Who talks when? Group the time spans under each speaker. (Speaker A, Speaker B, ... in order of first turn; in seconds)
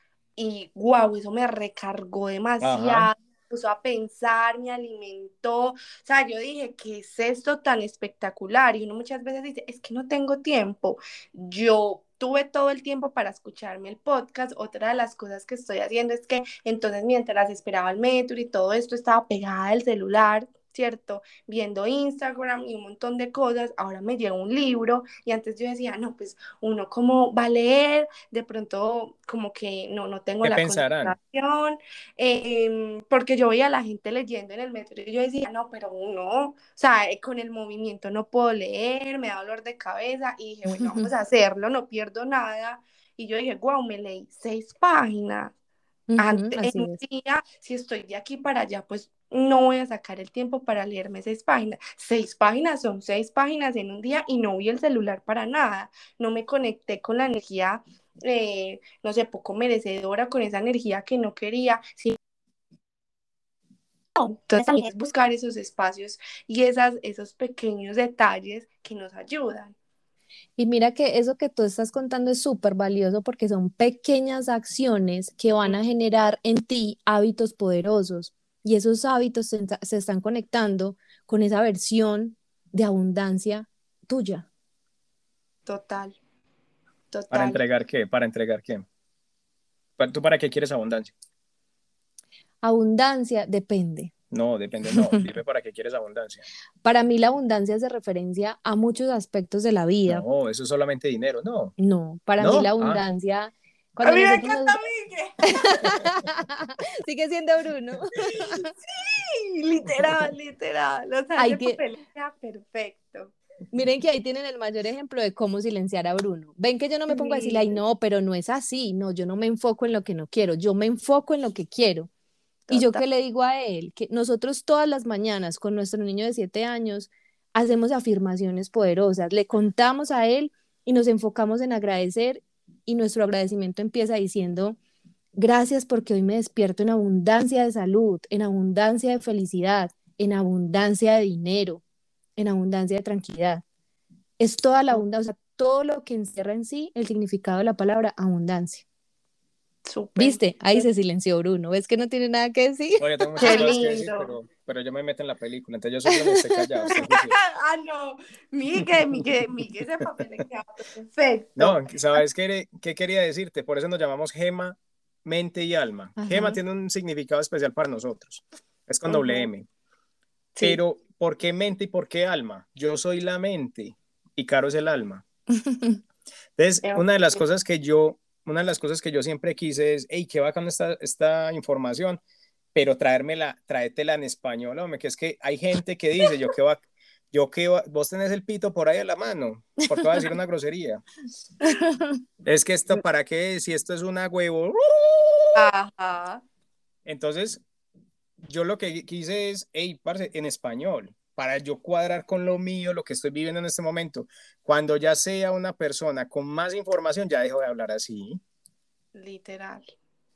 Speaker A: 0.4-45.5, 46.2-62.2, 64.2-69.8, 85.7-86.2, 87.1-87.6, 104.0-106.0, 108.1-113.3, 117.1-117.8, 122.7-123.0, 149.8-150.9, 153.4-154.3, 156.9-162.2, 169.1-169.5, 176.8-177.4, 195.6-196.4, 209.1-209.8
Speaker B: 2.6-3.1, 30.4-31.2, 87.3-88.9, 90.0-91.1, 94.3-96.5, 100.1-101.7, 102.4-103.0, 110.0-110.3, 153.0-157.3, 158.8-159.2, 161.6-169.7, 170.6-175.2, 176.6-182.2, 182.7-186.8, 187.3-191.0, 192.4-195.7, 197.1-197.6, 198.5-208.4
Speaker C: 40.7-41.1, 46.1-47.0, 70.6-84.5, 92.6-94.1, 94.9-95.2, 96.8-100.3, 101.8-104.8, 105.5-108.7, 111.4-111.8, 113.7-122.1, 122.7-134.8, 135.4-141.8, 142.4-143.6, 144.4-148.8, 150.2-153.7, 156.3-156.8, 166.2-166.6, 175.7-176.0, 191.7-192.2